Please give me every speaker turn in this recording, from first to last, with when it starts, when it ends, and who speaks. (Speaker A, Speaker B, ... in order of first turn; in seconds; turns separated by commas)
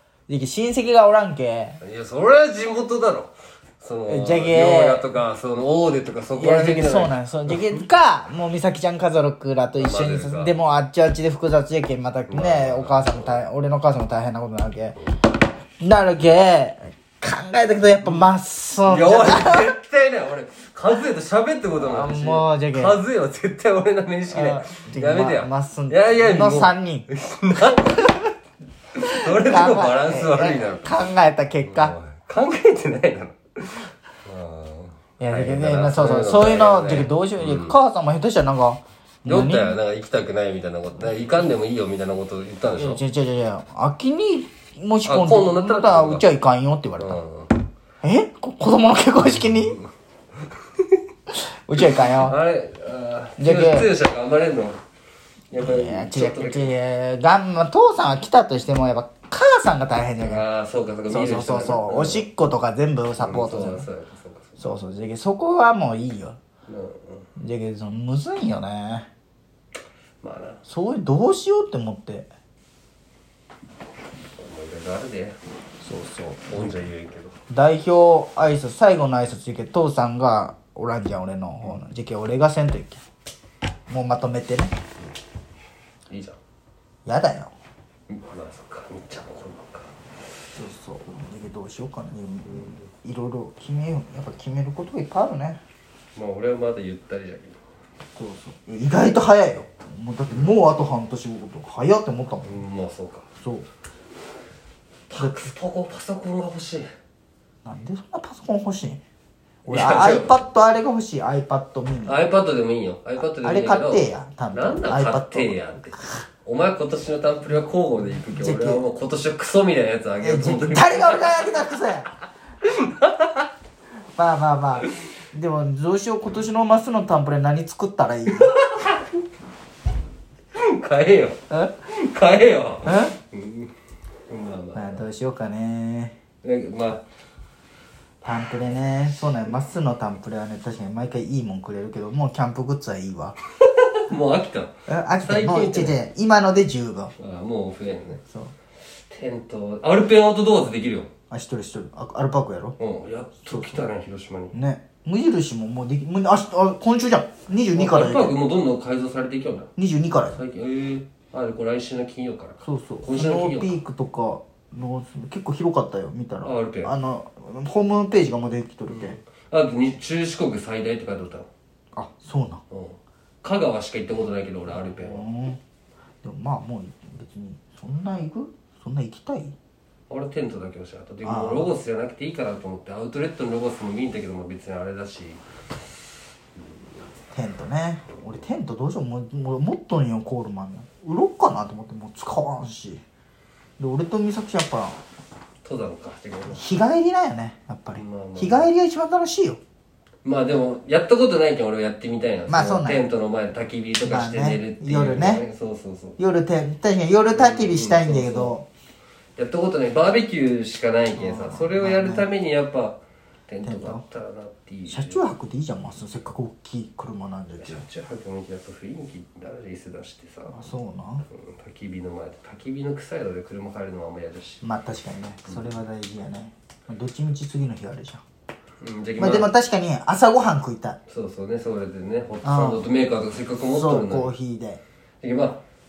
Speaker A: 0.3-1.8, Speaker B: 1.8-7.8, Speaker A: 4.1-5.0, Speaker A: 6.3-15.0, Speaker B: 9.8-10.6, Speaker B: 12.3-13.4, Speaker A: 15.8-19.7, Speaker B: 18.8-28.1, Speaker A: 21.8-23.0, Speaker A: 24.3-27.1, Speaker A: 27.9-28.2, Speaker B: 29.0-37.8, Speaker A: 29.0-31.9, Speaker A: 35.2-39.8, Speaker B: 39.2-43.0, Speaker A: 42.7-47.2, Speaker B: 45.0-46.2, Speaker B: 47.0-47.5, Speaker A: 48.0-49.8, Speaker B: 49.3-49.9, Speaker A: 51.3-52.4, Speaker B: 51.8-54.8, Speaker A: 53.4-53.9, Speaker B: 55.5-56.7, Speaker A: 55.6-60.4, Speaker B: 60.2-62.3, Speaker A: 61.1-63.9, Speaker B: 63.2-64.8, Speaker A: 64.6-66.4, Speaker B: 66.7-67.3, Speaker A: 67.4-69.1, Speaker B: 70.2-70.6, Speaker A: 70.7-72.3, Speaker B: 74.4-75.4, Speaker A: 75.8-76.9, Speaker B: 76.5-77.3, Speaker A: 77.5-83.0, Speaker A: 83.9-84.8, Speaker B: 86.1-86.4, Speaker A: 87.0-87.5, Speaker B: 88.1-89.9, Speaker A: 90.5-95.6, Speaker B: 92.5-92.8, Speaker B: 96.1-97.6, Speaker A: 98.2-102.6, Speaker B: 102.4-103.3, Speaker A: 103.4-103.7, Speaker B: 105.1-106.9, Speaker A: 105.2-105.4, Speaker A: 107.6-109.0, Speaker A: 109.7-112.2, Speaker B: 109.7-110.4, Speaker B: 112.0-121.5, Speaker A: 113.4-116.0, Speaker A: 118.4-118.8, Speaker A: 120.2-122.1, Speaker B: 122.6-123.5, Speaker A: 124.2-128.5, Speaker B: 128.5-129.1, Speaker B: 130.5-133.7, Speaker A: 132.8-133.2, Speaker B: 134.3-135.0, Speaker A: 134.7-136.1, Speaker B: 136.4-137.0, Speaker A: 138.2-143.4, Speaker B: 143.6-146.0, Speaker A: 144.9-147.1, Speaker B: 147.2-148.2, Speaker B: 148.8-151.1, Speaker A: 151.3-152.8, Speaker B: 152.8-154.5, Speaker A: 153.4-153.8, Speaker A: 154.5-158.4, Speaker B: 157.7-163.8, Speaker A: 159.8-160.4, Speaker A: 162.6-169.2, Speaker B: 166.4-166.9, Speaker B: 168.9-171.5, Speaker A: 171.9-172.6, Speaker B: 172.7-175.2, Speaker A: 174.7-175.6, Speaker A: 176.2-179.5, Speaker B: 180.1-185.4, Speaker A: 181.2-181.7, Speaker B: 186.6-187.1, Speaker A: 187.3-193.0, Speaker A: 193.8-195.0, Speaker B: 195.6-196.6, Speaker A: 196.5-199.6, Speaker B: 197.9-198.7, Speaker B: 200.2-206.3, Speaker A: 202.5-203.1, Speaker A: 204.0-205.4, Speaker A: 206.2-208.7, Speaker B: 207.3-208.6, Speaker B: 209.4-215.3, Speaker A: 211.1-212.3, Speaker A: 213.6-214.0, Speaker A: 214.9-217.8, Speaker B: 217.6-220.6, Speaker A: 220.5-221.2, Speaker B: 221.3-224.6, Speaker A: 224.6-228.2, Speaker B: 228.8-229.5, Speaker A: 229.2-231.0, Speaker B: 231.1-234.3, Speaker A: 232.4-232.9, Speaker A: 233.7-234.8, Speaker B: 235.2-235.6